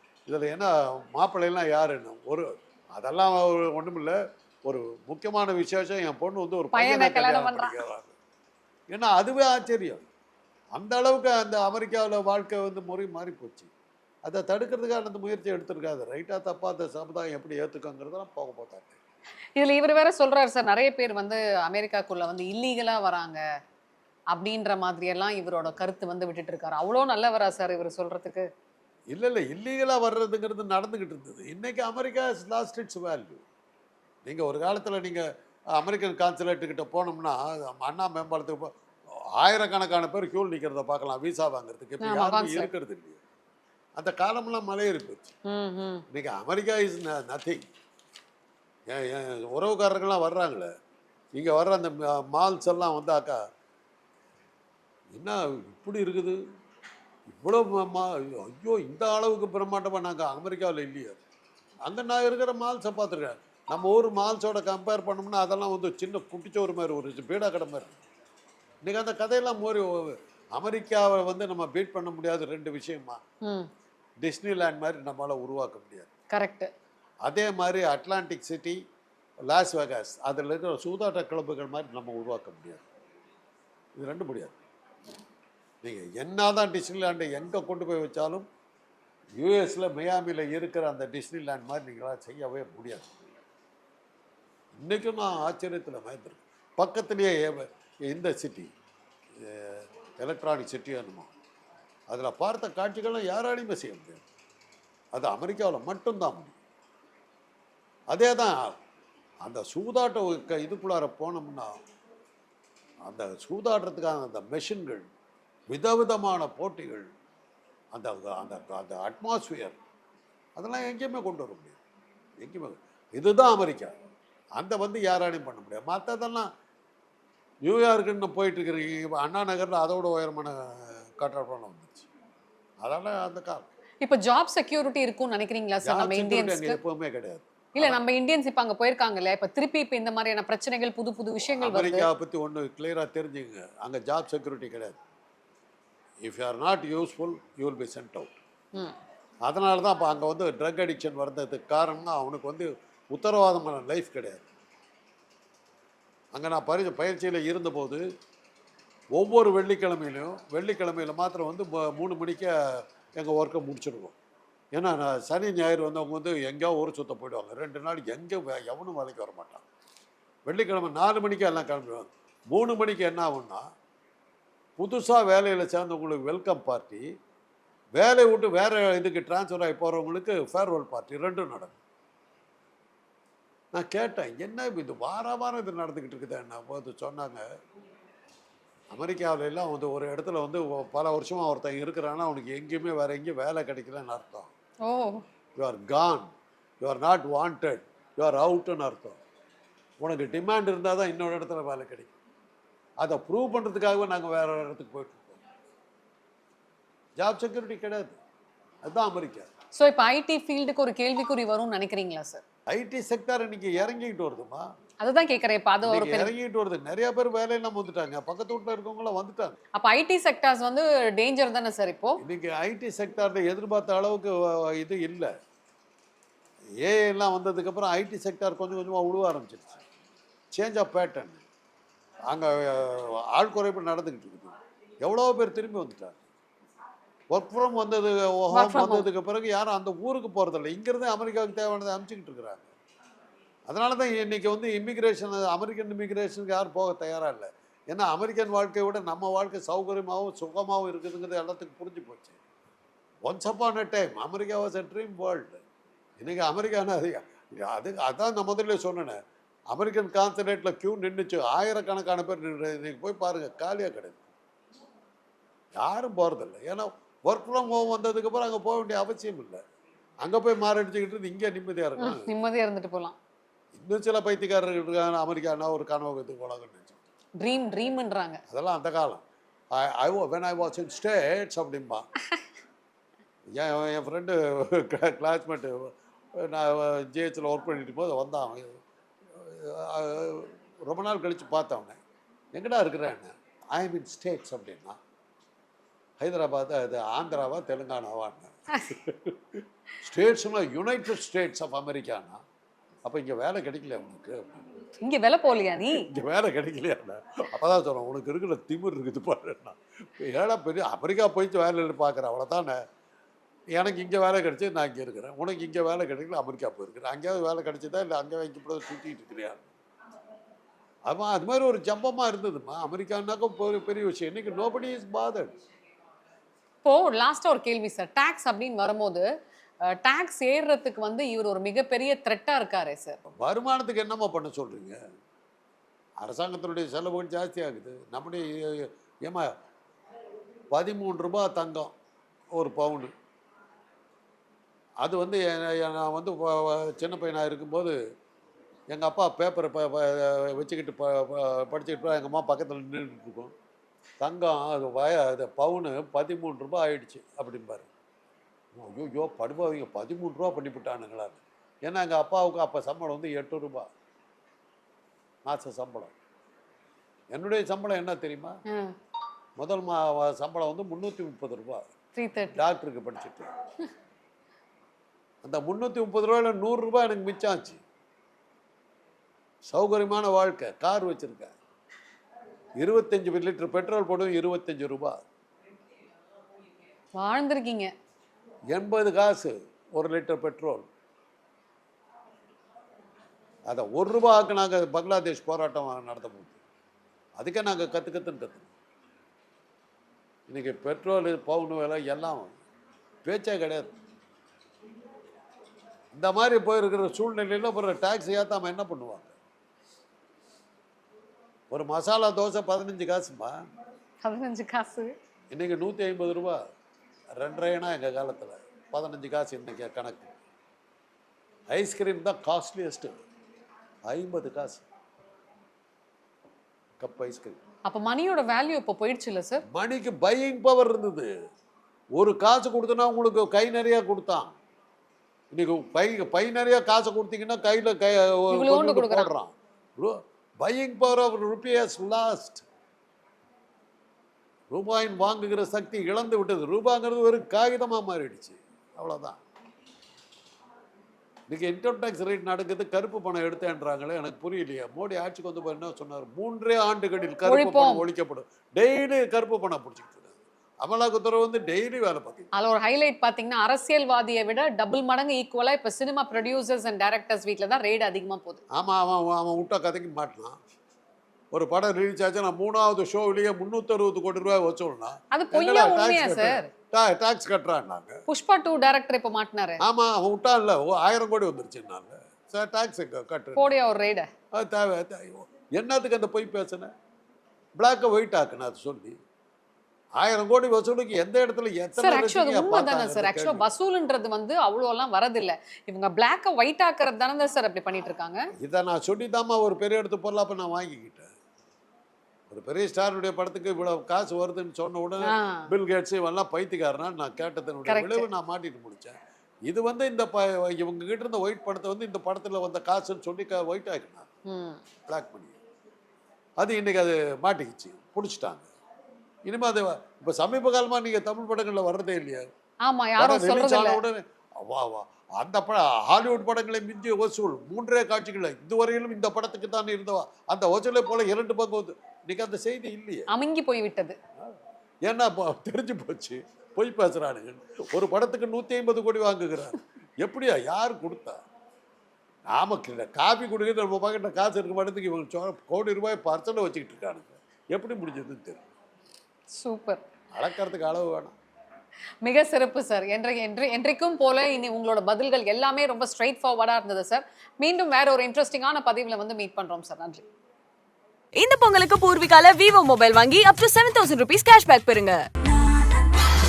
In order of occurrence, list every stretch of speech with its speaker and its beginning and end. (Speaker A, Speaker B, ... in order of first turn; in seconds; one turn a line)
Speaker A: 0.3-8.1
Speaker B: 6.7-7.8
Speaker A: 8.9-10.1
Speaker A: 10.8-13.7
Speaker A: 14.2-19.0
Speaker B: 19.6-23.4
Speaker B: 24.3-28.5
Speaker A: 29.1-33.4
Speaker A: 34.2-43.2
Speaker B: 42.0-42.7
Speaker A: 44.0-45.3
Speaker B: 45.5-46.0
Speaker A: 46.1-47.7
Speaker A: 48.9-50.7
Speaker A: 51.4-53.4
Speaker A: 55.1-56.4
Speaker A: 57.3-61.2
Speaker A: 61.9-68.0
Speaker A: 68.8-73.2
Speaker B: 73.4-73.7
Speaker A: 74.2-76.1
Speaker B: 76.3-76.7
Speaker A: 77.2-78.8
Speaker A: 79.5-82.8
Speaker A: 84.0-84.6
Speaker A: 85.8-88.5
Speaker A: 89.4-93.1
Speaker A: 94.7-98.7
Speaker A: 99.4-101.3
Speaker A: 102.1-104.2
Speaker A: 105.1-106.6
Speaker A: 108.1-108.8
Speaker A: 109.4-111.8
Speaker A: 113.0-115.1
Speaker A: 115.7-117.1
Speaker A: 117.9-119.8
Speaker A: 120.6-121.8
Speaker A: 122.4-123.9
Speaker A: 124.6-126.5
Speaker A: 127.6-132.1
Speaker A: 132.8-133.7
Speaker B: 134.0-136.8
Speaker A: 135.8-138.0
Speaker B: 137.8-142.1
Speaker A: 141.6-145.0
Speaker A: 146.2-148.3
Speaker A: 149.5-154.5
Speaker A: 156.3-158.0
Speaker A: 159.2-164.2
Speaker A: 164.7-169.6
Speaker A: 170.5-173.7
Speaker A: 174.8-177.1
Speaker A: 178.0-181.8
Speaker A: 183.7-187.4
Speaker A: 188.9-194.5
Speaker B: 194.8-195.2
Speaker A: 195.6-199.2
Speaker A: 200.0-202.1
Speaker A: 203.0-205.4
Speaker A: 207.2-208.2
Speaker A: 208.8-209.5
Speaker B: 209.8-212.4
Speaker A: 212.7-214.7
Speaker B: 215.0-216.3
Speaker A: 215.8-219.6
Speaker B: 219.8-222.2
Speaker A: 222.2-225.3
Speaker A: 226.8-229.8
Speaker A: 230.5-231.4
Speaker A: 232.3-236.2
Speaker A: 237.3-242.7
Speaker B: 238.5-239.1
Speaker A: 243.7-252.4
Speaker A: 253.2-255.6
Speaker A: 256.2-259.2
Speaker A: 259.7-264.3
Speaker A: 265.8-269.6
Speaker A: 270.2-272.3
Speaker B: 272.0-273.2
Speaker A: 273.7-277.0
Speaker B: 277.4-278.4
Speaker A: 278.5-282.1
Speaker A: 283.5-288.8
Speaker A: 289.3-292.0
Speaker A: 292.5-295.0
Speaker A: 296.2-302.4
Speaker B: 298.7-299.0
Speaker A: 303.1-304.7
Speaker B: 305.0-306.1
Speaker A: 305.9-312.8
Speaker A: 313.7-319.7
Speaker A: 321.1-325.6
Speaker B: 326.9-329.3
Speaker B: 329.9-333.2
Speaker A: 333.3-335.0
Speaker A: 336.2-339.5
Speaker A: 340.7-341.9
Speaker A: 342.5-343.1
Speaker A: 345.0-348.0
Speaker A: 348.9-353.5
Speaker A: 354.2-357.9
Speaker A: 358.7-363.9
Speaker A: 365.4-366.1
Speaker A: 367.3-368.6
Speaker A: 369.6-371.9
Speaker B: 372.2-372.6
Speaker A: 372.5-373.5
Speaker A: 375.4-377.8
Speaker A: 379.6-381.6
Speaker A: 382.8-385.2
Speaker B: 387.2-387.9
Speaker A: 388.7-390.9
Speaker A: 393.7-396.6
Speaker A: 397.4-398.7
Speaker A: 400.5-402.5
Speaker A: 403.2-403.9
Speaker A: 406.1-409.4
Speaker A: 411.7-413.6
Speaker B: 414.2-415.1
Speaker A: 415.5-416.6
Speaker A: 417.4-420.3
Speaker A: 421.7-423.1
Speaker A: 424.1-424.8
Speaker A: 427.0-427.6
Speaker B: 427.9-429.6
Speaker A: 429.7-431.3
Speaker A: 432.1-434.6
Speaker A: 435.5-442.7
Speaker B: 438.5-439.3
Speaker A: 444.7-449.4
Speaker A: 451.5-462.5
Speaker B: 457.5-458.1
Speaker B: 462.5-468.6
Speaker A: 468.7-470.6
Speaker A: 471.5-478.2
Speaker B: 475.3-476.7
Speaker B: 478.3-479.8
Speaker A: 479.8-483.8
Speaker B: 483.6-484.3
Speaker A: 484.5-486.9
Speaker A: 487.8-489.2
Speaker A: 490.2-493.7
Speaker B: 492.0-498.5
Speaker A: 498.6-501.3
Speaker A: 502.5-514.3
Speaker B: 505.2-505.7
Speaker B: 507.9-508.3
Speaker B: 514.5-514.8
Speaker A: 515.1-515.6
Speaker A: 516.6-518.7
Speaker A: 519.5-522.5
Speaker B: 522.9-524.0
Speaker A: 523.2-533.3
Speaker B: 533.3-534.2
Speaker A: 535.0-541.4
Speaker A: 542.5-548.6
Speaker B: 549.5-550.0
Speaker A: 550.3-551.4
Speaker B: 552.2-560.2
Speaker C: 561.4-565.2